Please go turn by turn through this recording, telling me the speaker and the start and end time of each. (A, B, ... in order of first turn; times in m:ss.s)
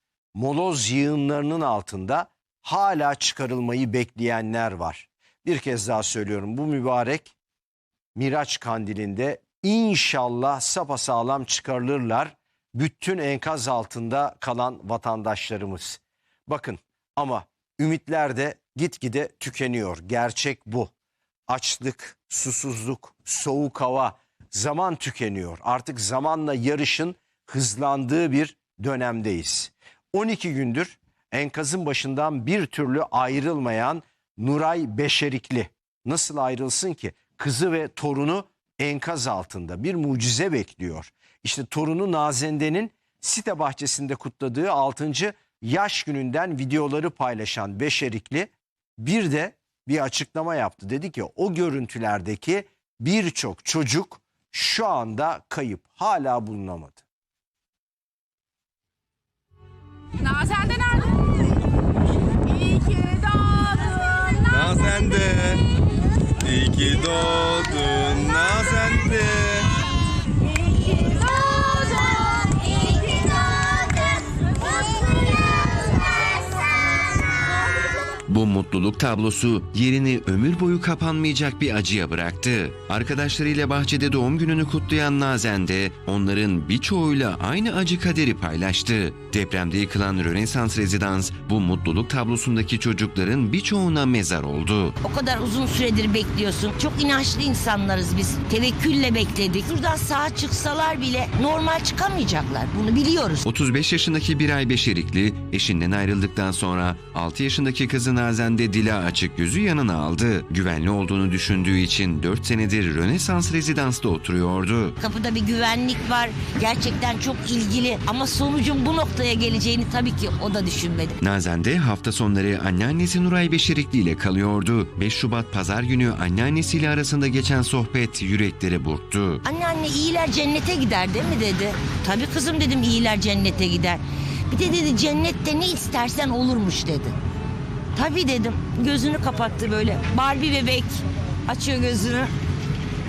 0:00.4-0:07.3 A
0:08.2-0:20.9 A
0:21.5-0:57.0 A
1:00.2-1:01.3 B
1:02.5-1:04.4 B
1:04.5-1:05.6 C
1:06.4-1:09.7 C
1:11.0-1:15.4 B
1:15.9-1:16.3 B
1:18.3-1:35.0 D
1:35.0-1:43.4 E
1:43.4-1:55.0 D
1:55.0-2:01.2 E
2:01.2-2:09.4 D
2:09.4-2:17.2 E
2:18.0-2:22.3 E